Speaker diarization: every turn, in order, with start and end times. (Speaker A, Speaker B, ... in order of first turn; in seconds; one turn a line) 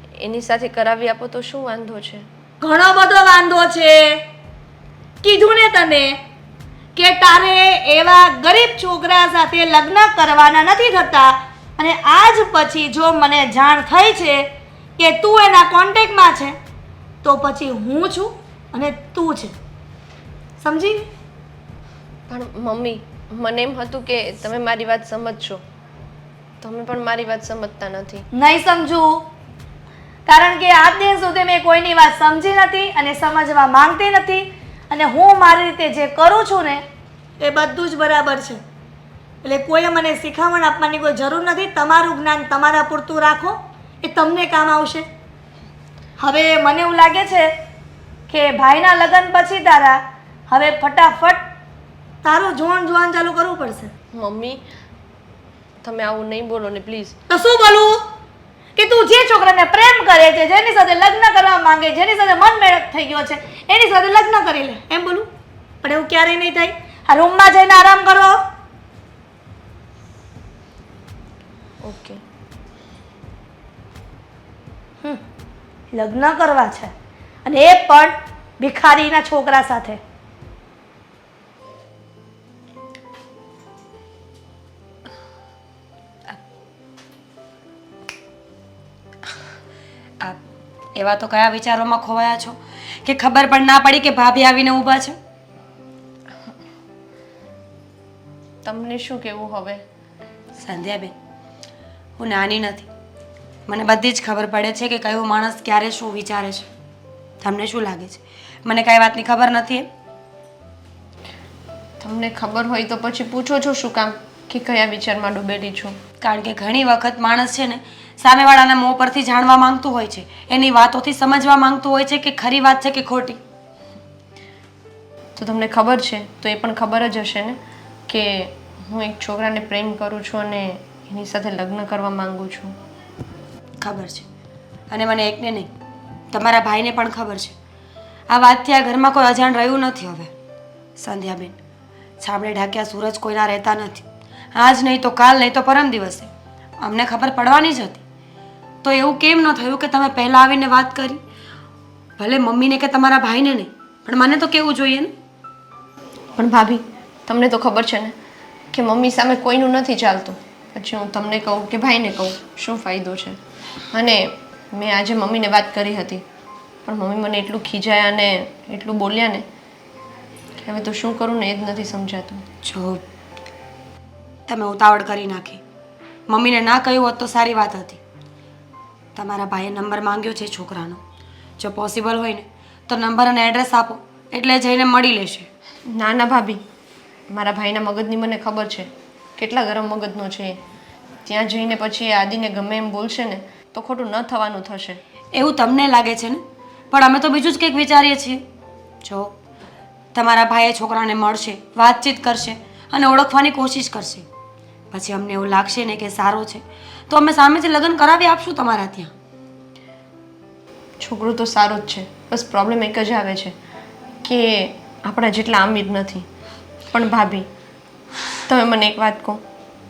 Speaker A: 0.2-2.2
Speaker B: 2.6-4.2
Speaker B: 5.2-6.2
Speaker B: 7.0-16.6
Speaker B: 17.2-19.6
Speaker B: 20.6-21.1
Speaker A: 22.3-25.6
Speaker A: 26.6-28.3
Speaker B: 28.3-29.3
Speaker B: 30.3-36.8
Speaker B: 37.4-38.6
Speaker B: 39.4-45.1
Speaker B: 46.2-47.5
Speaker B: 48.3-51.4
Speaker B: 52.2-53.9
Speaker A: 54.1-54.6
Speaker A: 55.8-57.2
Speaker B: 57.3-58.0
Speaker B: 58.8-65.3
Speaker B: 65.8-68.4
Speaker A: 71.8-72.2
Speaker B: 75.9-76.9
Speaker B: 77.5-80.0
Speaker C: 91.0-95.2
Speaker A: 98.7-99.8
Speaker C: 100.6-101.1
Speaker C: 102.2-102.9
Speaker C: 103.7-106.7
Speaker C: 107.4-109.9
Speaker A: 112.0-116.0
Speaker C: 116.2-123.4
Speaker A: 125.4-127.6
Speaker A: 128.1-132.7
Speaker C: 133.8-134.3
Speaker C: 134.9-135.7
Speaker C: 136.3-137.6
Speaker C: 138.3-140.3
Speaker C: 141.0-141.6
Speaker C: 142.2-148.0
Speaker C: 148.8-151.2
Speaker C: 152.2-155.1
Speaker A: 156.4-158.1
Speaker A: 158.7-163.4
Speaker A: 163.9-166.2
Speaker A: 166.9-169.4
Speaker A: 170.6-172.4
Speaker C: 172.6-173.0
Speaker C: 174.5-175.6
Speaker C: 176.3-178.0
Speaker C: 179.2-181.0
Speaker C: 181.6-185.5
Speaker A: 185.9-186.6
Speaker A: 187.3-190.6
Speaker A: 191.2-195.0
Speaker C: 195.3-198.4
Speaker C: 199.0-199.3
Speaker C: 200.1-204.2
Speaker C: 204.9-209.1
Speaker A: 211.0-213.6
Speaker A: 214.2-216.3
Speaker A: 216.9-217.5
Speaker A: 218.5-219.4